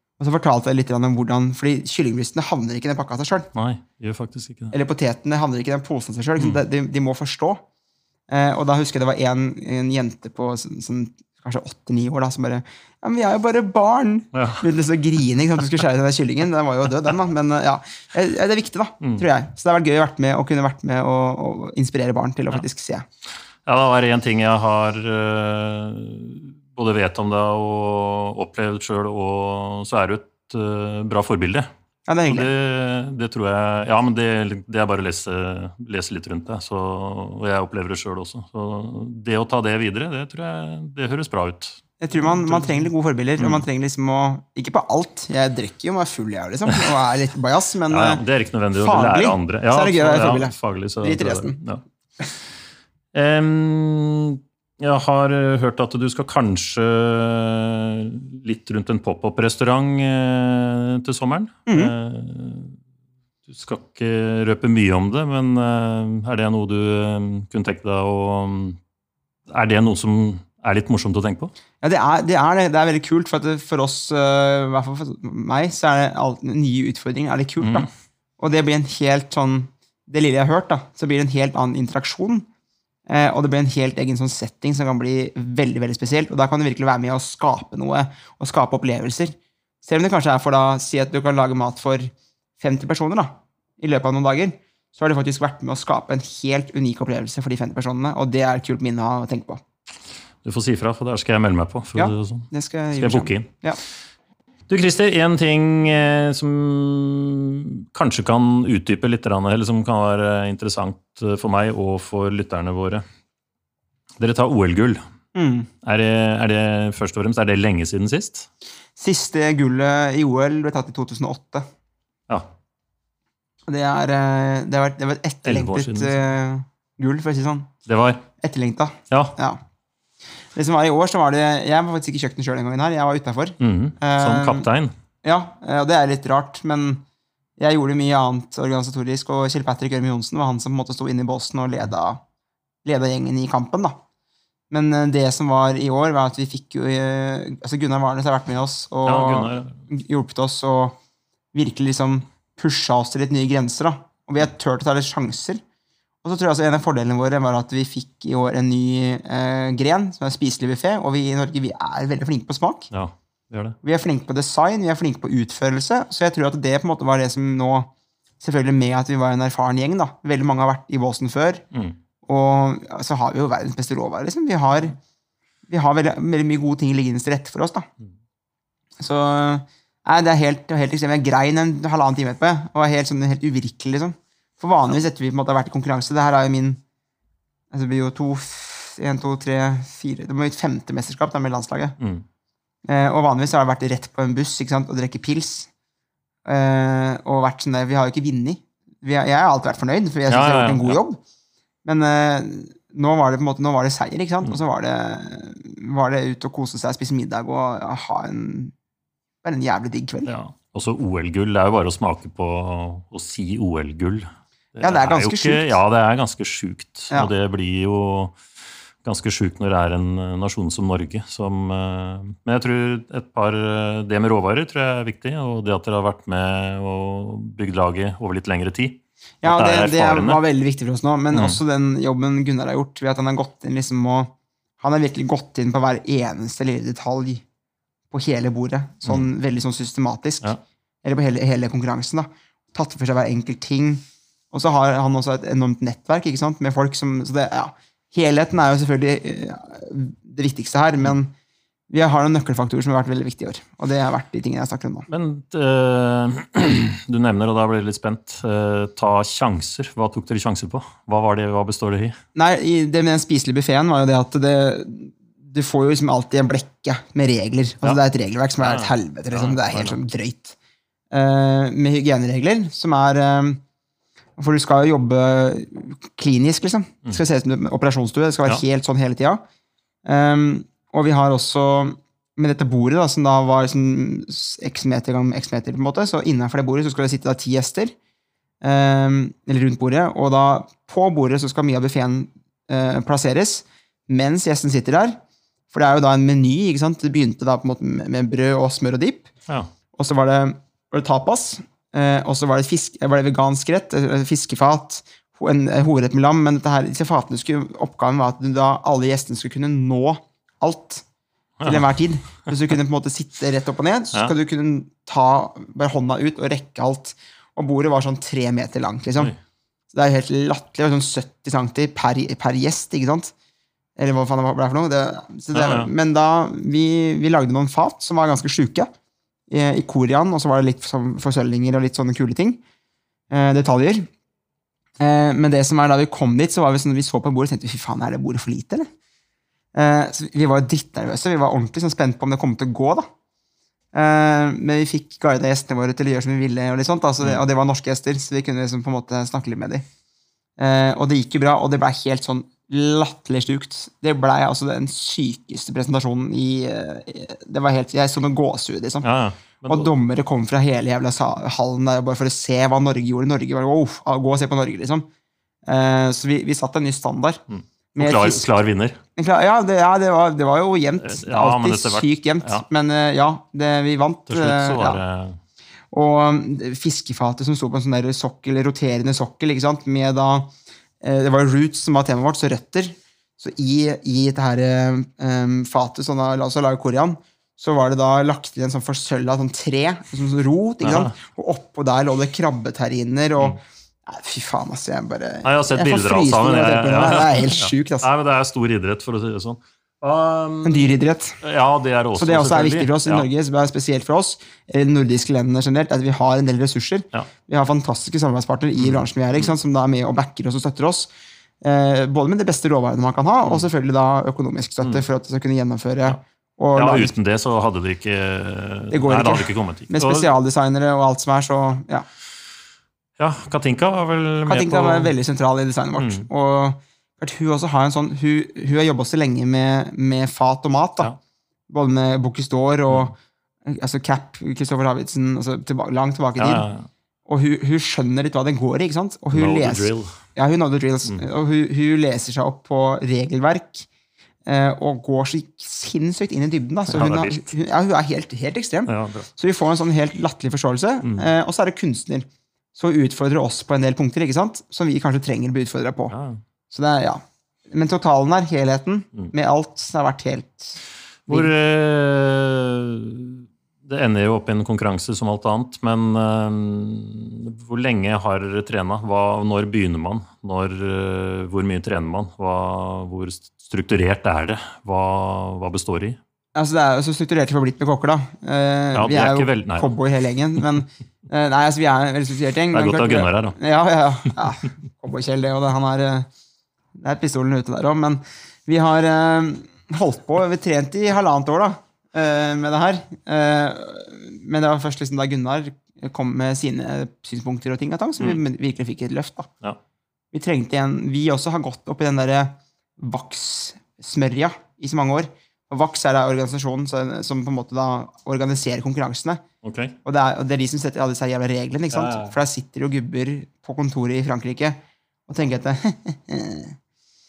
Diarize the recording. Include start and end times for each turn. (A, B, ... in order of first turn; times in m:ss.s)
0:00.2-0:03.5 A
0:03.6-0:04.8 B
0:04.7-0:07.6 A
0:08.3-0:23.0 A
0:14.3-0:14.6 B
0:19.0-0:19.3 B
0:23.7-0:31.7 B
0:32.1-0:32.5 A
0:32.3-0:42.8 B
0:42.0-0:48.2 A
0:43.4-0:43.6 B
0:47.9-0:51.8 B
0:48.8-0:51.6 A
0:53.1-1:02.8 B
1:01.7-1:02.0 A
1:03.5-1:08.8 B
1:09.5-1:11.5 B
1:11.8-1:17.9 A
1:17.6-1:17.9 B
1:18.4-1:22.5 A
1:23.1-1:39.6 A
1:40.4-1:43.5 B
1:42.0-1:43.8 A
1:44.7-1:53.0 B
1:54.2-1:55.0 B
1:55.4-1:55.7 A
1:55.8-1:58.5 B
1:59.0-2:01.6 A
2:03.7-2:07.7 A
2:05.4-2:06.2 B
2:07.9-2:08.2 B
2:08.4-2:09.6 A
2:09.1-2:09.4 B
2:10.5-2:14.7 A
2:13.6-2:14.9 B
2:15.2-2:17.0 A
2:17.6-2:22.2 A
2:22.8-2:23.9 A
2:24.7-2:31.0 A
2:29.0-2:29.9 B
2:31.5-2:35.6 A
2:36.2-2:42.9 A
2:42.9-2:43.8 B
2:43.8-2:51.6 A
2:52.2-2:55.0 A
2:55.7-2:57.9 A
2:59.0-3:06.8 A
3:07.7-3:12.0 A
3:12.9-3:15.7 A
3:16.5-3:21.2 A
3:20.3-3:21.0 B
3:21.8-3:28.7 A
3:29.4-3:30.3 A
3:30.3-3:38.4 B
3:34.8-3:35.8 A
3:39.0-3:50.4 B
3:49.4-3:57.4 A
3:51.3-3:51.6 B
3:58.1-4:00.5 A
4:01.0-4:11.3 A
4:11.9-4:15.1 A
4:15.1-4:22.2 B
4:22.4-4:30.6 A
4:28.6-4:30.0 B
4:31.1-4:33.6 A
4:34.4-4:39.4 A
4:40.0-4:47.9 A
4:48.6-4:55.2 A
4:55.7-4:59.3 A
5:00.0-5:11.0 A
5:11.6-5:11.9 B
5:11.6-5:19.3 A
5:19.9-5:23.3 A
5:24.0-5:28.9 A
5:25.5-5:25.9 B
5:29.5-5:32.6 A
5:33.3-5:34.1 A
5:35.0-5:38.9 A
5:39.7-5:43.1 A
5:43.9-5:49.8 A
5:50.6-5:59.1 A
5:59.0-5:59.9 B
5:59.7-6:05.1 A
6:05.7-6:07.4 A
6:07.5-6:09.0 B
6:08.0-6:08.5 A
6:09.2-6:15.0 A
6:11.0-6:12.7 B
6:14.3-6:15.4 B
6:15.9-6:38.1 A
6:30.8-6:31.2 B
6:35.4-6:43.3 B
6:40.6-6:41.4 A
6:42.2-6:57.1 A
6:48.8-6:49.5 B
6:56.8-7:00.3 B
6:58.9-7:02.1 A
7:03.2-7:05.1 B
7:04.5-7:11.1 A
7:06.0-7:06.3 B
7:11.7-7:16.7 A
7:16.4-7:16.9 B
7:17.3-7:23.9 A
7:19.3-7:20.2 B
7:24.5-7:36.1 A
7:26.9-7:27.5 B
7:28.9-7:29.3 B
7:31.0-7:31.3 B
7:36.1-7:36.4 B
7:36.7-7:41.5 A
7:41.3-7:56.2 B
7:56.6-8:06.3 A
7:58.9-7:59.9 B
8:02.7-8:03.6 B
8:07.0-8:19.5 A
8:20.3-8:29.4 A
8:29.6-8:30.0 B
8:30.0-8:36.8 A
8:31.9-8:32.4 B